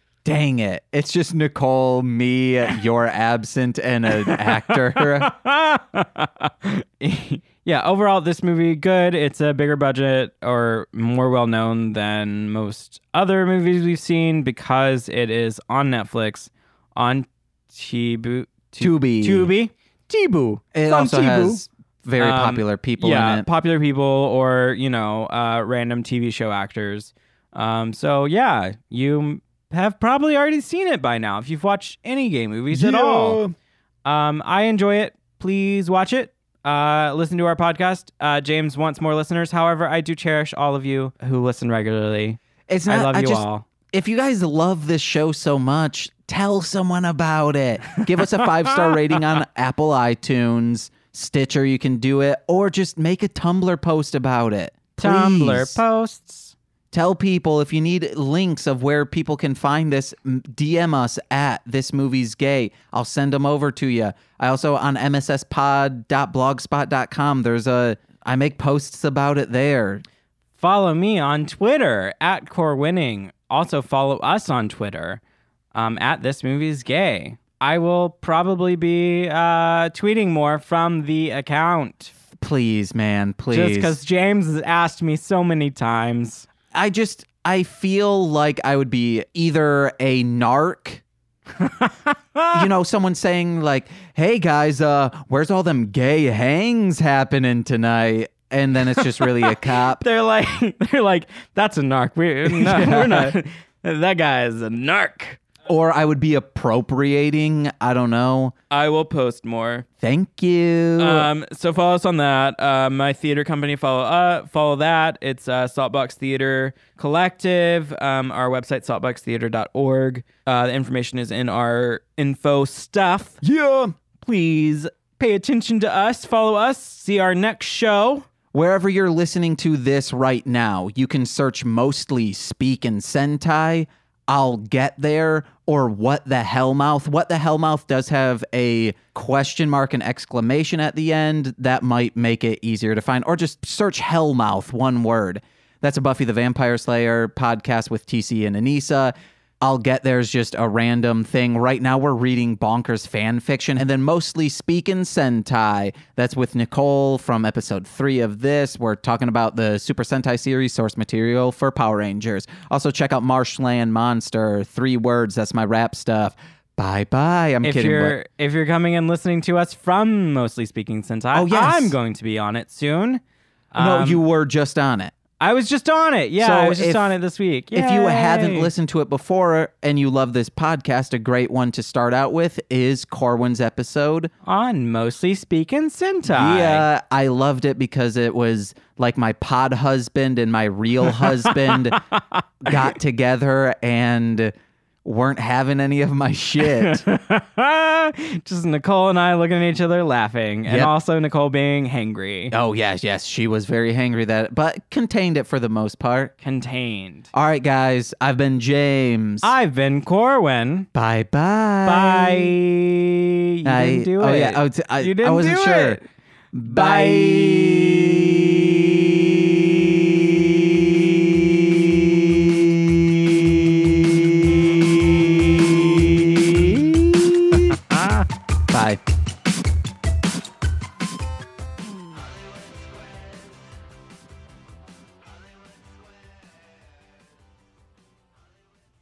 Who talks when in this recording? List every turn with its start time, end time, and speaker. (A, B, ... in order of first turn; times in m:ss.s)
0:00.2-0:05.3 A
0:04.2-0:21.6 B
0:18.8-0:19.5 A
0:20.7-0:23.5 A
0:22.2-0:33.4 B
0:32.7-0:33.6 A
0:34.0-0:43.6 B
0:42.7-0:55.8 A
0:48.0-0:49.2 B
0:55.0-0:56.5 B
0:56.9-1:10.0 A
1:10.6-1:15.2 B
1:15.7-1:22.1 B
1:22.4-1:24.0 A
1:23.5-1:26.5 B
1:26.7-1:31.0 A
1:31.6-1:32.7 B
1:32.5-1:40.0 A
1:39.0-1:45.4 B
1:42.4-1:43.4 A
1:45.7-1:48.5 A
1:48.7-1:49.9 B
1:50.0-1:51.3 A
1:51.0-2:03.4 B
2:03.4-2:04.4 A
2:04.2-2:08.3 B
2:08.5-2:48.2 A
2:47.6-2:53.2 B
2:51.3-2:52.0 A
2:53.7-2:54.2 B
2:53.8-2:55.2 A
2:55.4-2:58.7 B
2:56.4-2:57.2 A
2:57.7-3:04.3 A
3:04.4-3:06.9 B
3:06.3-3:12.0 A
3:11.2-3:12.9 B
3:12.6-3:14.5 A
3:15.0-3:17.0 A
3:16.6-3:22.5 B
3:20.7-3:20.9 A
3:22.5-3:26.3 A
3:26.4-3:27.3 B
3:27.3-3:29.5 A
3:29.4-3:30.9 B
3:30.9-3:32.6 A
3:31.8-3:36.0 B
3:33.6-3:36.0 A
3:36.5-3:47.8 A
3:36.6-3:37.8 B
3:48.7-3:49.0 A